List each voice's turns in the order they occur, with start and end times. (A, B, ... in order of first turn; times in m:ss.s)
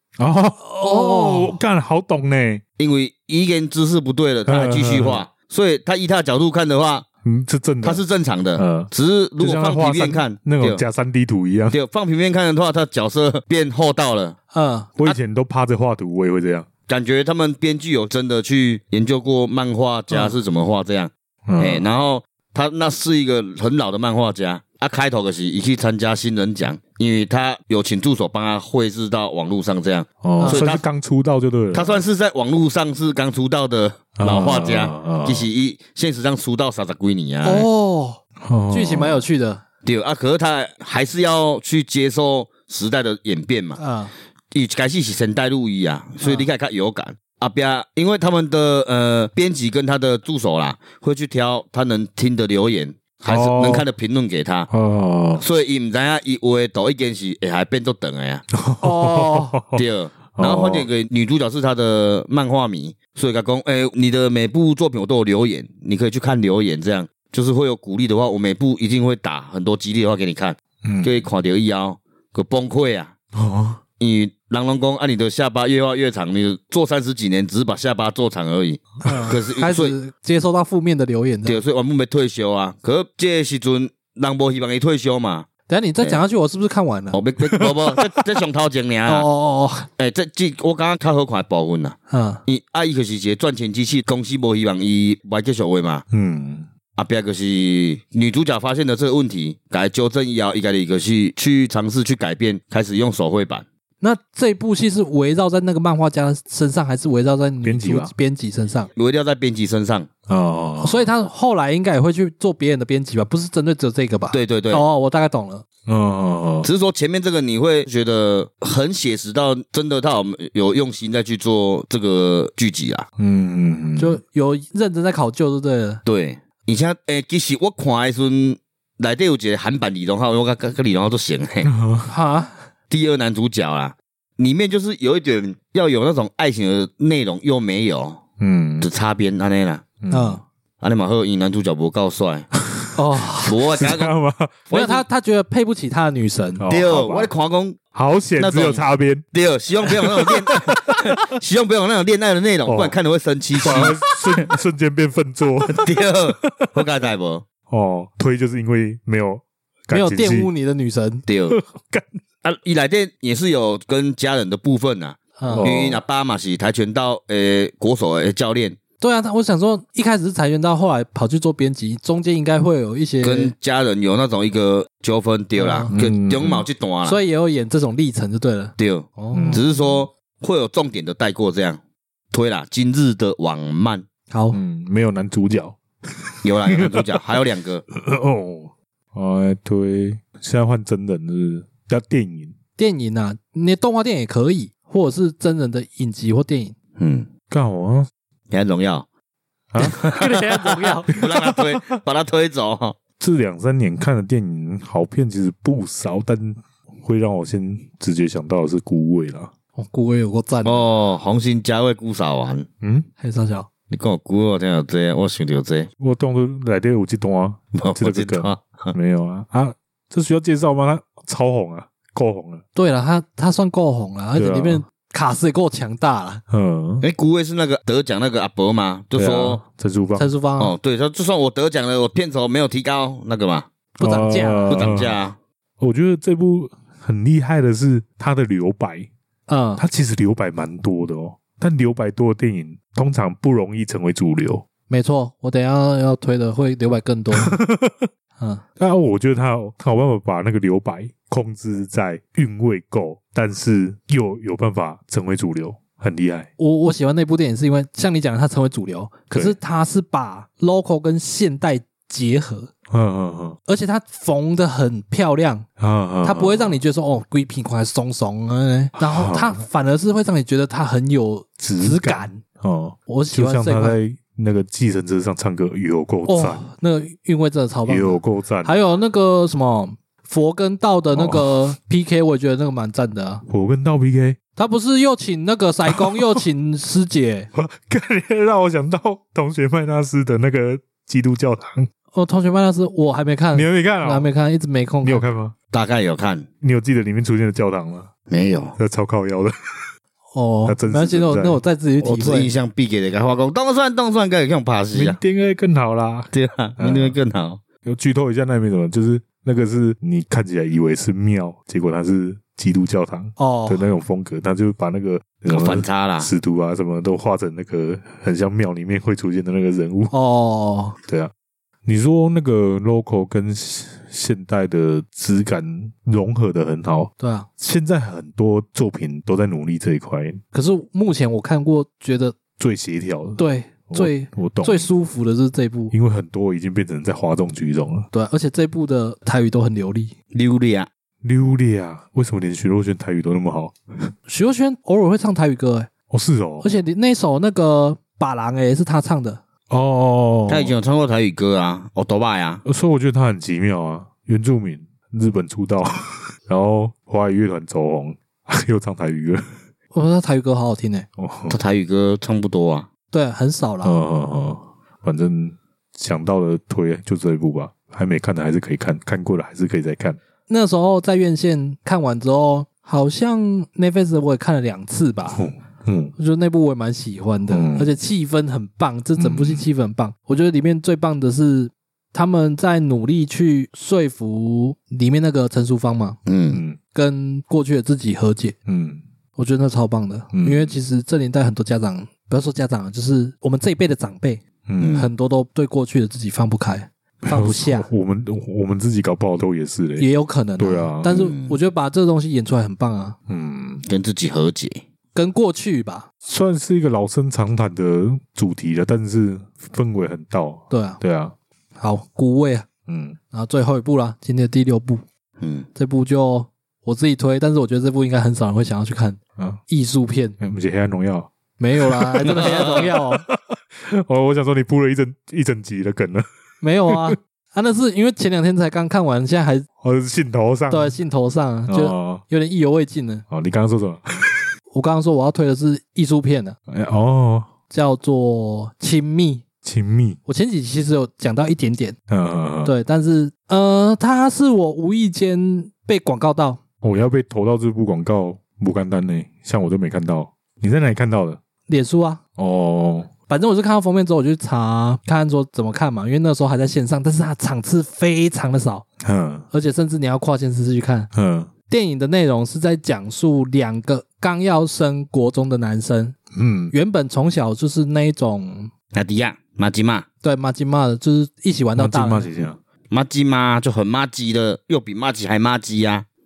0:00.2-0:02.6 A
0:00.8-0:01.6 B
0:02.8-0:07.0 C
0:04.5-0:05.2 A
0:07.2-0:08.0 A
0:07.8-0:10.8 C
0:08.6-0:11.8 A
0:11.7-0:14.4 C
0:14.5-0:14.9 B
0:15.0-0:16.7 A
0:16.9-0:30.8 C
0:21.5-0:21.8 A
0:30.2-0:32.1 A
0:30.4-0:30.7 B
0:31.7-0:37.7 C
0:34.2-0:35.5 A
0:37.4-0:39.6 B
0:38.4-0:39.2 A
0:39.8-0:43.8 C
0:43.8-0:44.1 B
0:44.5-0:54.7 C
0:46.2-0:46.5 B
0:53.2-0:53.8 A
0:54.7-0:55.4 A
0:55.4-0:58.4 C
0:58.5-0:59.8 A
0:58.8-0:59.6 B
0:59.7-1:13.1 C
1:00.4-1:00.9 A
1:10.8-1:11.3 A
1:13.3-1:13.8 A
1:14.0-1:19.9 C
1:19.0-1:21.6 B
1:21.4-1:25.5 C
1:25.7-1:27.2 B
1:27.1-1:29.3 C
1:29.1-1:29.9 B
1:30.0-1:36.0 C
1:32.1-1:32.4 B
1:36.1-1:36.7 A
1:37.0-1:43.6 C
1:44.0-1:48.9 B
1:47.6-1:48.1 A
1:48.9-1:50.1 C
1:50.3-1:51.1 A
1:50.8-1:55.6 B
1:54.3-1:54.8 C
1:55.9-1:56.7 A
1:56.6-2:03.1 C
2:03.2-2:04.2 A
2:04.0-2:06.0 B
2:06.0-2:11.7 C
2:11.6-2:12.1 A
2:12.1-2:12.6 B
2:12.9-2:18.2 C
2:18.4-2:18.9 A
2:18.8-2:19.8 C
2:20.0-2:20.4 A
2:20.1-2:20.4 B
2:20.8-2:22.5 C
2:22.9-2:23.6 B
2:23.4-2:24.1 C
2:23.7-2:24.6 A
2:24.7-2:25.0 C
2:24.7-2:26.6 B
2:26.6-2:27.3 A
2:26.7-2:27.8 C
2:27.9-2:29.2 A
2:28.4-2:28.8 C
2:29.3-2:34.5 C
2:29.8-2:31.1 A
2:32.6-2:33.0 A
2:33.6-2:36.8 A
2:35.6-2:37.4 C
2:37.7-2:40.5 A
2:39.9-2:41.2 B
2:41.3-2:41.6 C
2:41.5-2:42.2 A
2:42.4-2:48.8 C
2:45.4-2:45.7 B
2:45.5-2:46.0 A
2:49.0-2:53.5 B
2:53.2-2:57.2 C
2:55.6-2:55.9 B
2:55.9-2:56.6 A
2:57.0-2:59.6 B
2:58.8-3:01.8 C
2:59.3-3:00.0 A
3:02.3-3:04.1 C
3:04.3-3:04.6 B
3:04.5-3:12.5 A
3:06.4-3:07.8 C
3:12.8-3:16.7 B
3:17.0-3:17.3 C
3:17.5-3:18.1 A
3:18.5-3:19.1 C
3:19.7-3:22.0 A
3:19.8-3:21.1 B
3:21.1-3:23.0 C
3:23.2-3:29.5 A
3:29.8-3:30.9 B
3:30.6-3:32.7 C
3:32.8-3:33.1 A
3:33.2-3:33.7 B
3:33.9-3:35.9 C
3:36.0-3:42.6 A
3:37.7-3:38.9 C
3:42.7-3:46.4 B
3:44.4-3:44.8 A
3:46.5-3:47.0 A
3:47.0-3:49.6 C
3:49.1-3:50.3 A
3:50.2-3:50.7 B
3:50.6-3:53.7 C
3:54.0-3:54.7 B
3:54.0-3:55.2 A
3:54.7-3:55.4 C
3:55.8-3:59.1 A
3:59.5-3:59.8 B
3:59.8-4:04.6 A
4:04.9-4:07.6 B
4:07.4-4:08.1 A
4:08.8-4:16.5 A
4:16.6-4:22.7 B
4:22.9-4:23.6 A
4:23.7-4:25.6 B
4:25.8-4:26.8 A
4:26.2-4:32.4 B
4:29.0-4:29.6 A
4:31.6-4:36.6 A
4:33.1-4:34.0 B
4:36.3-4:43.4 B
4:37.9-4:38.8 A
4:41.1-4:41.7 A
4:43.5-4:44.4 A
4:44.6-4:47.5 B
4:45.9-4:46.4 A
4:47.5-4:51.9 A
4:52.1-4:55.2 B
4:53.5-4:54.3 A
4:55.0-4:55.5 A
4:55.7-4:56.5 C
4:56.6-4:58.1 A
4:58.3-4:58.8 C
4:58.8-4:59.9 A
5:00.3-5:02.5 B
5:00.6-5:01.6 A
5:02.0-5:05.2 C
5:04.9-5:07.2 A
5:06.3-5:07.6 C
5:07.8-5:20.1 A
5:13.4-5:13.9 B
5:15.5-5:16.3 C
5:20.1-5:21.0 B
5:21.0-5:21.3 A
5:21.8-5:30.4 A
5:27.2-5:27.5 B
5:30.5-5:32.4 B
5:32.6-5:34.9 A
5:33.4-5:35.9 B
5:35.9-5:38.1 A
5:38.1-5:40.1 B
5:40.3-5:40.9 C
5:41.2-5:44.1 A
5:44.3-5:45.9 B
5:46.1-5:46.7 A
5:46.6-5:49.4 B
5:49.7-5:50.7 A
5:50.5-5:52.6 C
5:52.6-5:59.5 A
5:59.9-6:01.1 B
6:01.2-6:01.6 A
6:01.5-6:02.9 C
6:03.1-6:04.0 B
6:03.8-6:10.2 A
6:10.5-6:15.4 B
6:15.3-6:16.1 A
6:16.2-6:26.2 B
6:17.5-6:17.9 A
6:19.2-6:19.6 A
6:26.2-6:26.6 C
6:26.5-6:26.8 A
6:26.9-6:28.6 B
6:28.7-6:29.0 A
6:29.4-6:34.4 B
6:30.3-6:30.8 A
6:34.7-6:35.0 A
6:34.8-6:35.1 C
6:34.9-6:37.9 B
6:37.2-6:41.3 A
6:40.0-6:43.2 B
6:41.1-6:41.6 C
6:43.3-6:43.8 A
6:43.9-6:44.8 C
6:45.1-6:46.1 B
6:46.2-6:51.4 A
6:50.7-6:51.0 B
6:51.8-6:52.7 B
6:52.9-6:53.2 A
6:53.3-6:55.0 B
6:55.4-6:55.7 C
6:55.8-7:00.4 B
6:59.4-6:59.6 A
7:00.4-7:06.3 A
7:01.6-7:03.2 B
7:06.6-7:09.7 B
7:06.9-7:07.2 A
7:09.8-7:11.0 A
7:10.7-7:13.2 B
7:11.7-7:12.2 A
7:13.3-7:14.5 A
7:14.7-7:16.6 B
7:16.7-7:17.5 A
7:17.7-7:19.4 B
7:19.6-7:20.2 A
7:20.2-7:22.0 B
7:22.1-7:22.7 A
7:22.6-7:26.6 B
7:26.8-7:31.4 A
7:31.7-7:32.2 B
7:32.4-7:33.1 A
7:33.3-7:38.8 B
7:39.0-7:39.5 A
7:39.5-7:41.1 B
7:41.1-7:41.5 A
7:41.7-7:46.2 B
7:46.3-7:46.7 A
7:46.7-7:48.7 B
7:48.9-7:50.1 C
7:50.2-7:52.3 B
7:51.8-7:52.6 A
7:52.9-7:56.1 C